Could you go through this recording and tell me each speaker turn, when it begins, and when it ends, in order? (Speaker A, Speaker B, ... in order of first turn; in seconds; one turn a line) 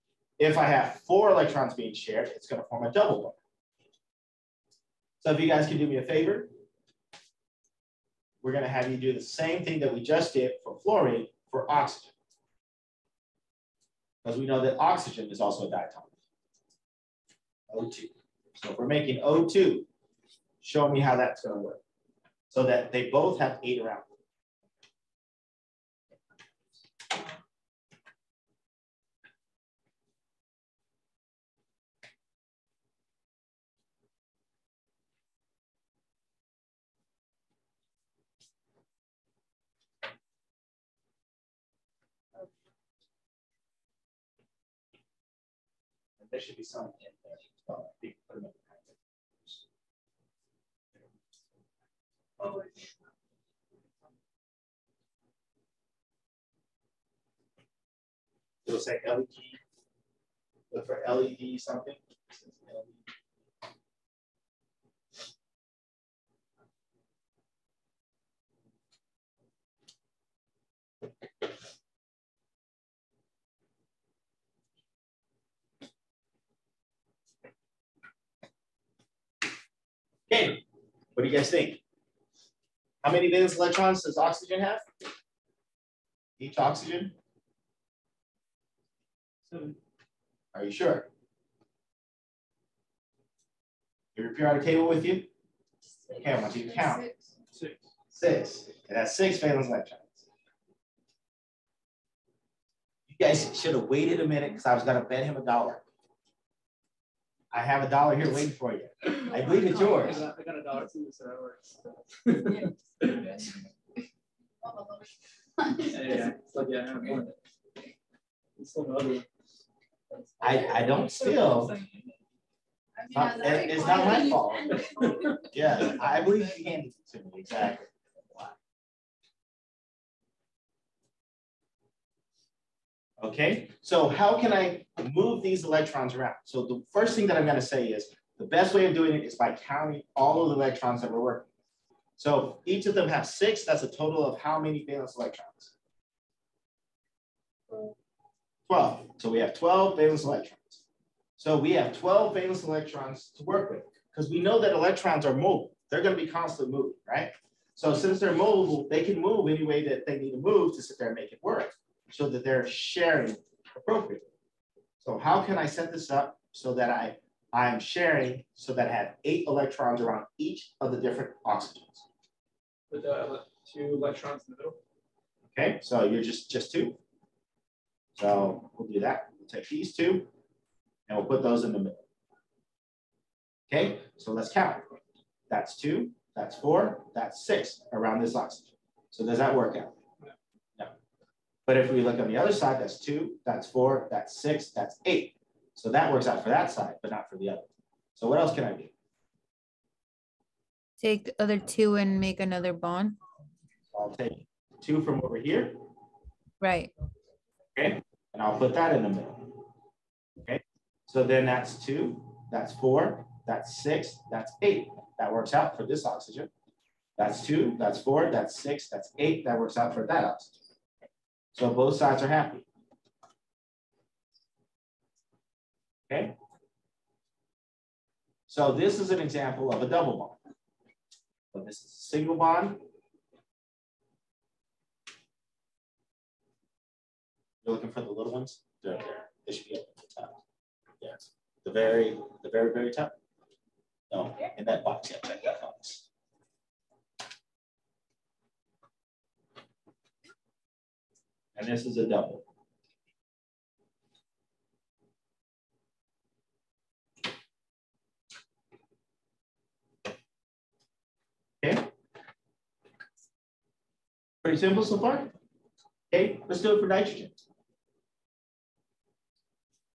Speaker A: 0.4-3.4
Speaker A: 5.2-6.5
Speaker A: 8.4-12.1
Speaker A: 14.2-16.1
Speaker A: 17.7-19.9
Speaker A: 20.6-21.8
Speaker A: 22.5-24.1
Speaker A: 46.2-48.9
Speaker B: 52.4-52.7
Speaker A: 58.6-59.6
Speaker A: 60.7-63.0
Speaker A: 80.3-80.6
Speaker A: 81.1-81.8
Speaker A: 83.0-84.8
Speaker A: 86.4-87.1
Speaker C: 89.5-89.8
Speaker A: 90.5-91.1
Speaker A: 94.1-95.3
Speaker A: 96.2-97.0
Speaker B: 96.7-97.1
Speaker C: 97.5-97.8
Speaker A: 98.1-100.2
Speaker A: 103.1-105.8
Speaker A: 107.5-110.2
Speaker C: 109.3-113.4
Speaker B: 114.6-115.9
Speaker C: 115.9-117.3
Speaker C: 118.5-119.3
Speaker A: 120.4-121.7
Speaker B: 123.0-125.9
Speaker A: 123.1-124.7
Speaker C: 124.8-125.3
Speaker A: 125.5-128.5
Speaker A: 133.2-141.5
Speaker A: 142.2-145.7
Speaker A: 148.7-150.8
Speaker A: 151.4-164.3
Speaker A: 165.0-172.0
Speaker C: 172.9-174.8
Speaker A: 175.5-177.0
Speaker A: 178.2-180.3
Speaker A: 181.1-182.0
Speaker A: 183.7-184.9
Speaker A: 185.5-190.0
Speaker A: 191.7-198.9
Speaker D: 201.0-203.2
Speaker A: 203.9-205.8
Speaker D: 206.6-206.9
Speaker A: 207.8-209.6
Speaker A: 210.4-216.5
Speaker A: 217.2-220.6
Speaker A: 221.5-222.7
Speaker A: 226.1-226.3
Speaker A: 228.5-230.4
Speaker A: 231.5-232.8
Speaker A: 237.6-240.4
Speaker A: 241.0-243.1
Speaker A: 244.1-246.1
Speaker A: 251.6-252.4
Speaker A: 261.6-261.9
Speaker A: 264.4-265.3
Speaker A: 266.1-267.4